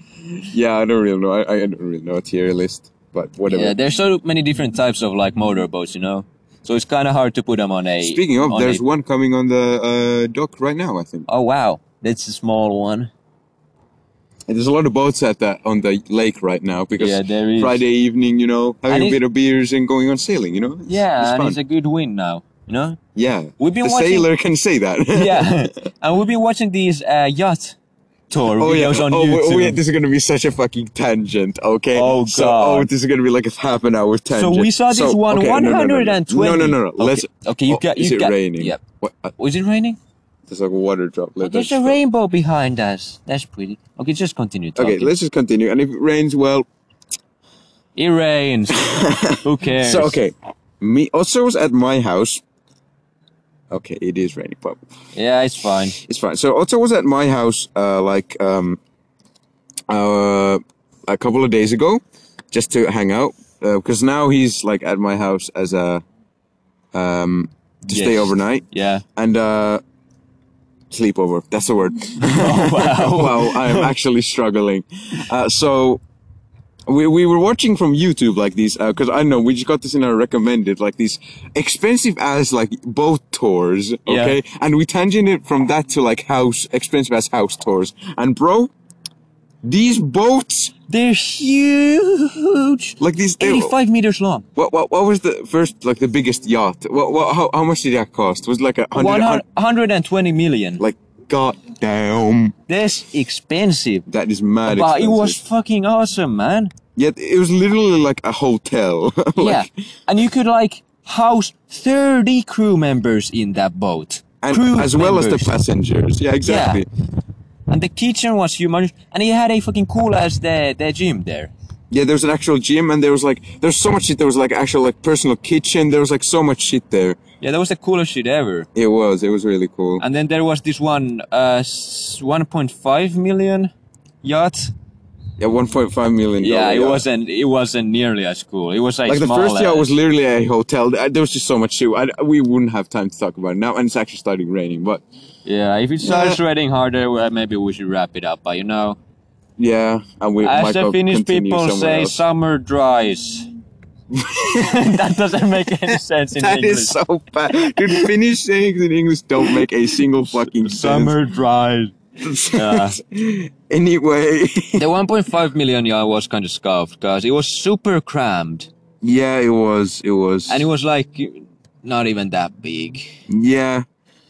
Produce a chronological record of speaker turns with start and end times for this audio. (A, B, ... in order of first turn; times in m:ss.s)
0:00.5-0:03.8 A
0:03.5-0:08.8 B
0:08.0-0:11.3 A
0:11.3-0:13.1 B
0:14.5-0:21.6 A
0:17.0-0:17.8 B
0:18.9-0:19.2 B
0:20.9-0:23.0 B
0:23.2-0:25.6 A
0:23.6-0:24.3 B
0:25.1-0:27.8 B
0:28.3-0:29.8 B
0:28.4-0:39.3 A
0:32.0-0:32.9 B
0:34.3-0:38.8 B
0:39.4-0:40.0 B
0:40.5-0:42.0 A
0:41.4-0:45.1 B
0:44.8-0:46.7 A
0:48.0-0:50.2 B
0:48.8-0:52.4 A
0:53.7-0:54.8 A
0:55.2-0:56.0 B
0:56.0-0:58.8 A
0:59.9-1:06.0 A
1:06.9-1:09.8 A
1:07.9-1:09.0 B
1:10.9-1:16.0 A
1:12.2-1:13.9 B
1:16.9-1:28.7 A
1:24.1-1:24.4 B
1:29.6-1:30.7 A
1:30.9-1:34.5 B
1:33.0-1:33.8 A
1:34.6-1:39.4 A
1:38.9-1:40.8 B
1:40.8-1:42.6 A
1:42.7-1:44.1 B
1:44.1-1:45.4 A
1:44.7-1:46.7 B
1:47.0-1:49.7 A
1:49.4-1:55.5 B
1:54.4-1:56.9 A
1:56.4-1:56.8 B
1:57.7-2:01.5 B
2:01.9-2:07.2 A
2:07.4-2:08.7 B
2:08.8-2:10.0 A
2:10.0-2:13.7 B
2:14.2-2:14.7 B
2:15.4-2:17.0 A
2:16.4-2:19.9 B
2:19.1-2:25.0 A
2:25.4-2:29.0 B
2:26.0-2:26.4 A
2:29.6-2:32.2 A
2:30.4-2:33.5 B
2:34.1-2:34.9 A
2:34.6-2:37.0 B
2:35.9-2:41.2 A
2:37.5-2:38.1 B
2:40.4-2:42.0 B
2:42.2-2:44.8 A
2:42.5-2:43.0 B
2:44.8-2:48.7 B
2:49.0-2:50.7 A
2:50.5-2:53.2 B
2:53.3-2:53.9 A